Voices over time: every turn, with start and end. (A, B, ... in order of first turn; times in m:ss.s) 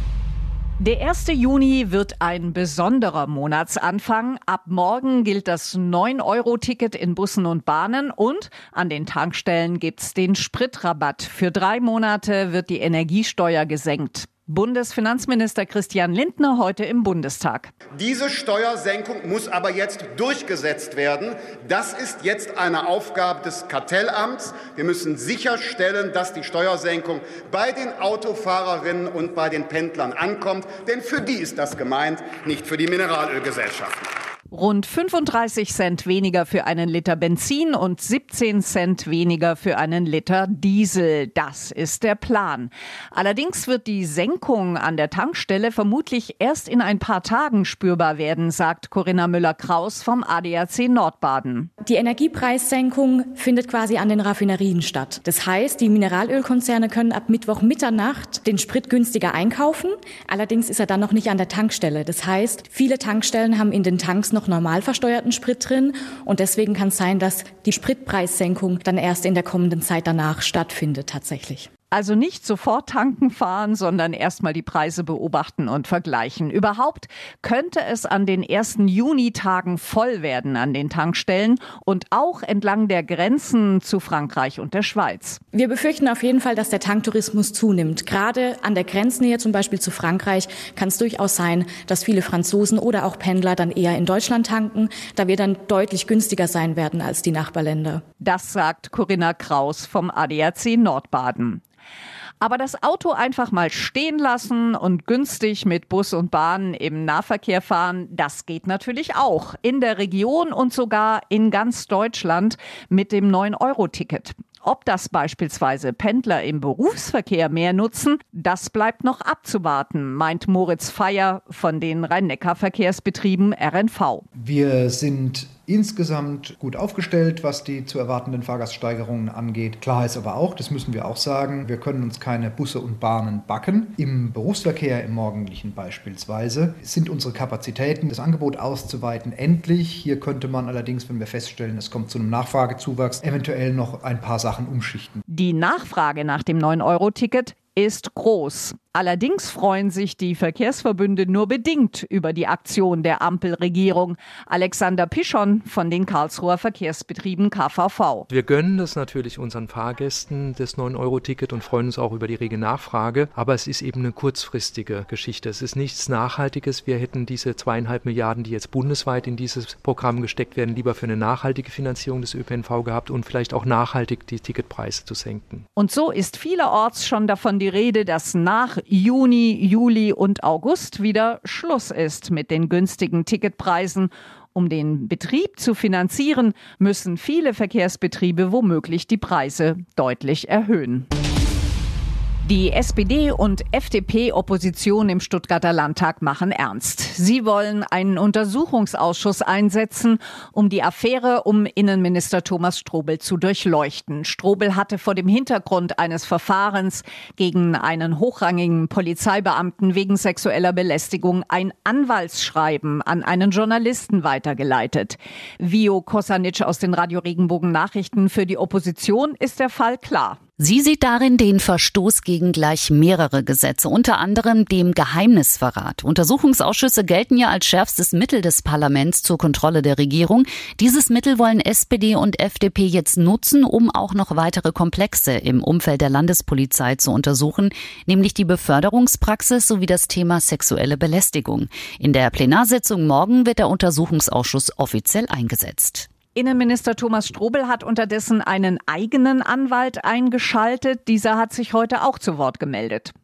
0:00.8-0:17.7 A
0:18.0-0:34.0 B
0:34.5-0:51.7 A
0:51.8-1:11.7 C
1:11.9-1:25.4 A
1:25.5-1:38.0 C
1:38.2-1:41.6 A
1:42.4-2:04.2 A
2:04.4-2:25.2 D
2:25.3-2:38.3 A
2:38.3-2:55.6 E
2:55.8-3:11.1 A
3:12.4-3:40.4 A
3:40.6-4:06.1 F
4:06.3-4:13.1 A